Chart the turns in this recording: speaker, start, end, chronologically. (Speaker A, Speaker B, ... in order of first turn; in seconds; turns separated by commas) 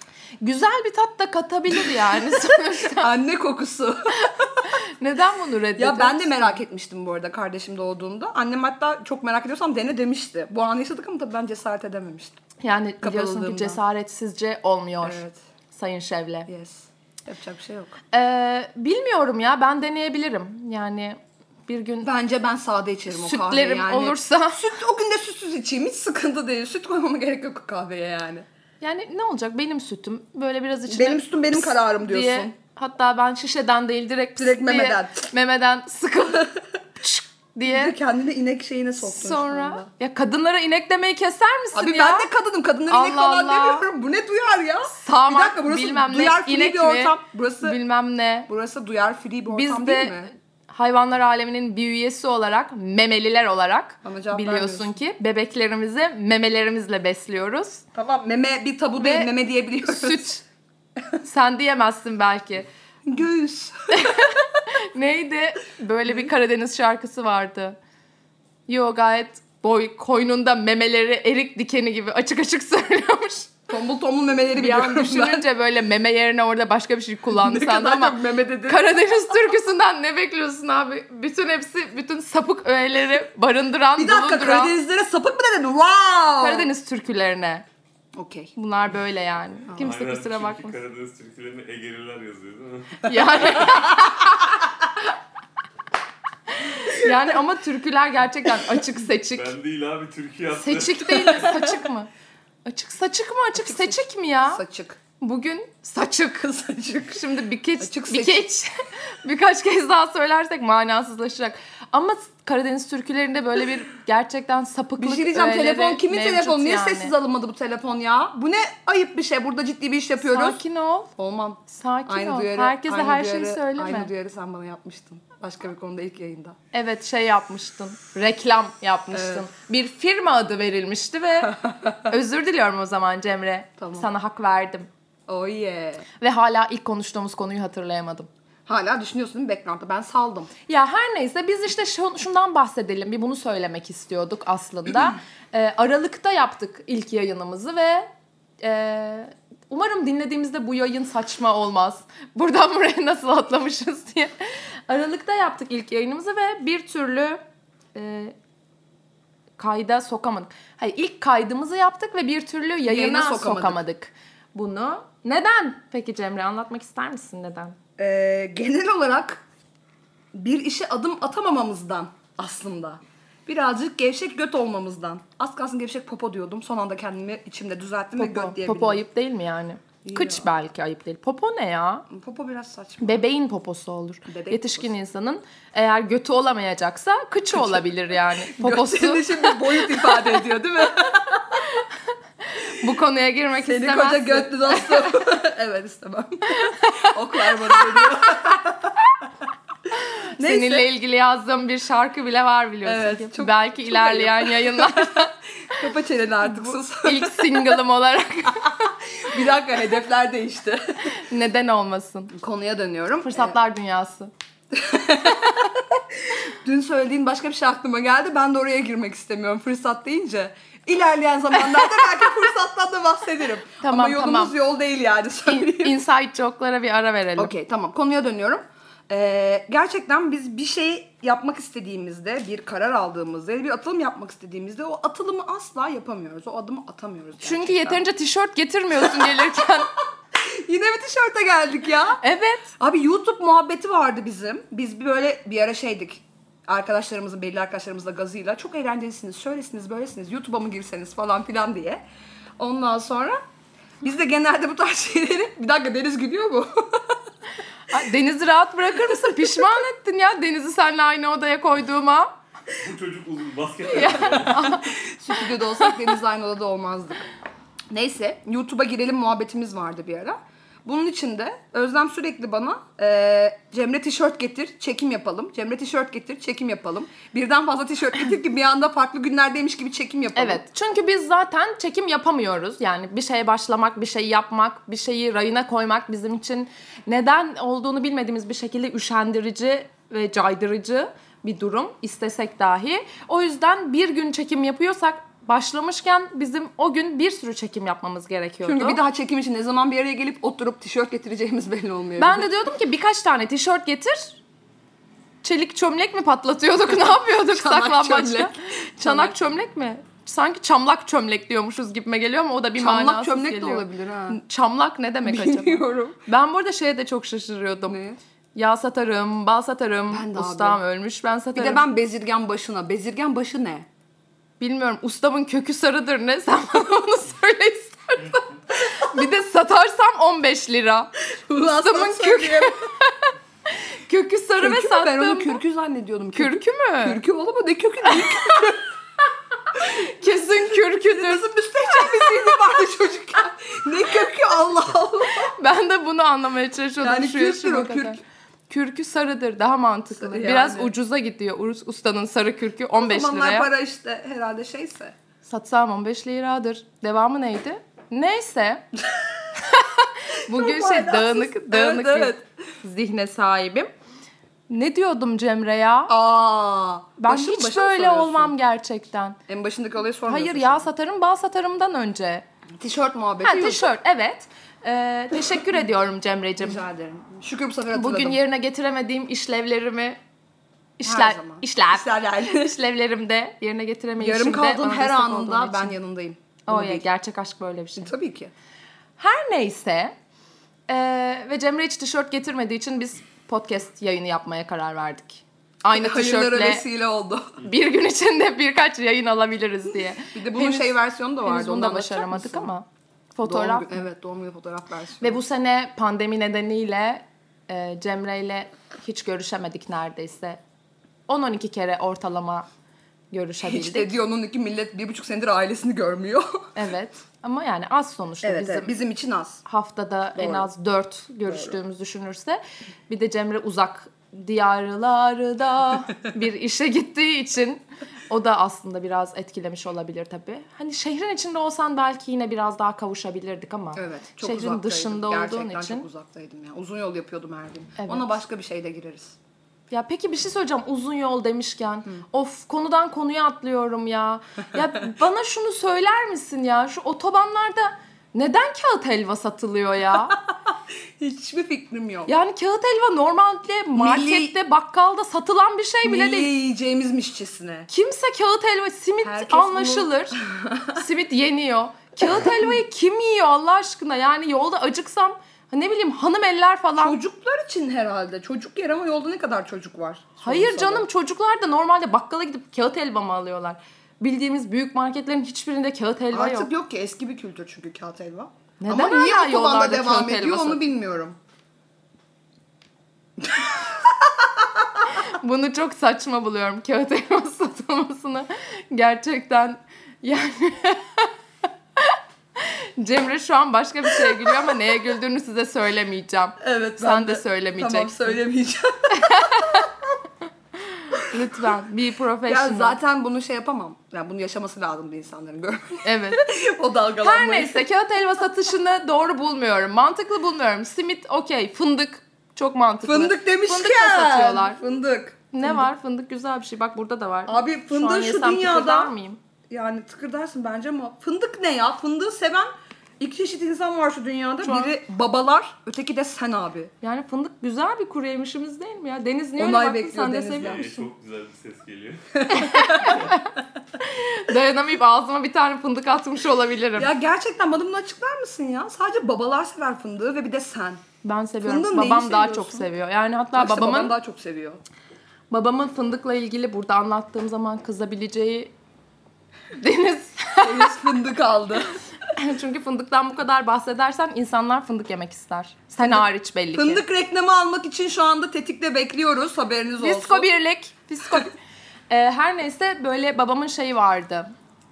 Speaker A: 0.4-3.1, Speaker B: 2.0-4.6, Speaker A: 4.7-6.6, Speaker B: 5.8-12.4, Speaker A: 12.6-16.5, Speaker B: 13.0-13.8, Speaker B: 15.0-15.4, Speaker B: 16.5-18.0, Speaker A: 18.1-22.1, Speaker B: 22.0-28.4, Speaker A: 23.1-24.6, Speaker A: 28.8-38.0, Speaker B: 30.9-32.5, Speaker B: 34.4-35.3, Speaker B: 37.7-39.9, Speaker A: 39.0-42.3, Speaker B: 41.7-47.8, Speaker A: 42.9-43.9, Speaker A: 44.9-48.5, Speaker B: 48.5-50.3, Speaker A: 49.5-57.9, Speaker B: 54.0-54.9, Speaker B: 57.9-60.3, Speaker A: 59.0-60.4, Speaker A: 61.2-62.7, Speaker B: 63.0-64.1, Speaker A: 63.9-67.8, Speaker A: 68.7-73.5, Speaker B: 73.7-75.4, Speaker A: 74.5-84.7, Speaker B: 77.3-78.9, Speaker B: 84.0-86.7, Speaker A: 86.4-87.6, Speaker B: 88.1-88.5, Speaker A: 88.5-90.8, Speaker C: 89.7-93.7, Speaker A: 93.0-94.5, Speaker A: 96.5-99.5, Speaker C: 99.3-101.7, Speaker A: 100.6-102.1, Speaker A: 102.6-104.6, Speaker B: 103.6-105.0, Speaker A: 105.2-106.5, Speaker B: 106.4-107.2, Speaker A: 107.1-108.7, Speaker B: 107.8-108.4, Speaker A: 109.2-117.1, Speaker B: 115.0-120.6, Speaker A: 120.2-121.1, Speaker B: 121.2-126.6, Speaker A: 121.7-124.1, Speaker A: 126.7-134.9, Speaker B: 129.1-129.4, Speaker B: 131.6-131.9, Speaker B: 133.8-134.1, Speaker B: 135.3-136.1, Speaker A: 136.2-138.3, Speaker B: 138.7-140.5, Speaker A: 140.7-148.1, Speaker A: 148.6-157.4, Speaker A: 157.9-158.3, Speaker A: 159.6-167.8, Speaker B: 162.8-163.8, Speaker B: 168.0-169.4, Speaker B: 170.3-179.0, Speaker A: 178.2-182.1, Speaker B: 180.0-180.5, Speaker B: 182.1-183.2, Speaker A: 183.0-190.2, Speaker B: 184.3-184.9, Speaker B: 187.6-191.6, Speaker A: 192.5-195.2, Speaker B: 193.6-198.9, Speaker A: 196.5-197.7, Speaker A: 200.3-205.8, Speaker B: 200.4-200.9, Speaker B: 202.8-207.8, Speaker A: 206.5-208.8, Speaker B: 208.6-211.1, Speaker A: 211.1-212.3, Speaker B: 212.3-213.6, Speaker A: 213.2-214.3, Speaker B: 214.7-226.0, Speaker A: 223.8-224.5, Speaker A: 225.5-227.5, Speaker B: 227.4-238.0, Speaker A: 237.4-239.9, Speaker B: 239.0-239.8, Speaker B: 240.3-242.2, Speaker A: 242.2-242.7, Speaker B: 242.8-252.0, Speaker B: 252.6-253.4, Speaker B: 254.0-257.2, Speaker A: 257.9-262.3, Speaker B: 259.1-259.8, Speaker C: 262.7-264.8, Speaker A: 263.9-265.9, Speaker B: 264.3-267.3, Speaker B: 267.9-280.6, Speaker A: 280.3-299.0, Speaker B: 298.6-302.5, Speaker A: 302.2-304.4, Speaker A: 305.4-318.0, Speaker B: 307.1-309.3, Speaker B: 312.8-314.4, Speaker B: 315.2-316.2, Speaker B: 317.9-318.2, Speaker A: 318.5-321.8, Speaker B: 320.1-320.8, Speaker B: 321.5-323.9, Speaker A: 324.6-333.3, Speaker B: 331.4-332.8, Speaker A: 333.8-335.6, Speaker B: 334.6-338.9, Speaker A: 336.3-337.2, Speaker A: 338.1-338.6, Speaker A: 339.8-342.5, Speaker B: 339.9-345.5, Speaker A: 345.4-353.7, Speaker B: 347.0-348.2, Speaker B: 350.1-350.9, Speaker B: 352.9-355.1, Speaker A: 355.4-358.8, Speaker B: 359.1-359.4, Speaker A: 359.6-363.9, Speaker B: 360.5-362.4, Speaker A: 364.7-366.1, Speaker B: 366.1-368.5, Speaker A: 367.2-369.4, Speaker B: 369.5-370.9, Speaker A: 370.2-372.4, Speaker B: 372.8-373.9, Speaker A: 373.4-376.8, Speaker B: 376.6-378.4, Speaker A: 377.9-380.2, Speaker A: 381.0-386.0, Speaker B: 381.0-382.7, Speaker B: 384.2-387.1, Speaker A: 386.6-388.1, Speaker B: 387.9-388.5, Speaker A: 389.2-390.1, Speaker A: 390.9-396.9, Speaker B: 395.9-397.6, Speaker A: 397.6-404.0, Speaker B: 400.3-402.7, Speaker B: 403.4-405.4, Speaker A: 405.2-410.6, Speaker A: 411.3-412.6, Speaker A: 413.3-414.1, Speaker B: 413.6-416.7, Speaker A: 416.7-418.9, Speaker B: 418.4-419.6, Speaker A: 419.6-436.1, Speaker B: 420.3-420.7, Speaker B: 421.5-421.8, Speaker B: 433.9-439.4, Speaker A: 438.0-438.3, Speaker A: 439.9-450.4, Speaker B: 451.2-452.3, Speaker A: 452.3-456.5, Speaker B: 453.9-454.6, Speaker B: 456.0-457.9, Speaker A: 457.9-460.4, Speaker B: 459.2-461.0, Speaker A: 460.9-467.2, Speaker B: 467.0-471.1, Speaker A: 470.4-476.7, Speaker B: 476.3-481.4, Speaker A: 478.8-480.8, Speaker B: 483.4-484.1, Speaker A: 485.1-491.3, Speaker A: 492.0-498.4, Speaker B: 496.6-499.9, Speaker A: 499.1-499.9, Speaker A: 500.9-503.0, Speaker B: 502.5-507.9, Speaker A: 506.0-506.4, Speaker A: 507.2-514.8, Speaker B: 513.0-515.9, Speaker A: 515.5-519.4, Speaker B: 517.5-519.1, Speaker B: 519.7-526.9, Speaker A: 524.6-524.9, Speaker A: 527.0-530.7, Speaker B: 529.6-531.1, Speaker C: 530.6-533.3, Speaker B: 532.5-533.3, Speaker A: 532.5-537.1, Speaker B: 537.0-541.0, Speaker A: 541.2-544.1, Speaker B: 541.6-542.9, Speaker B: 543.5-544.8, Speaker A: 545.5-548.7, Speaker A: 549.8-551.0, Speaker B: 550.6-552.0, Speaker A: 552.3-557.0, Speaker B: 556.0-560.5, Speaker A: 560.0-561.5, Speaker A: 562.1-564.5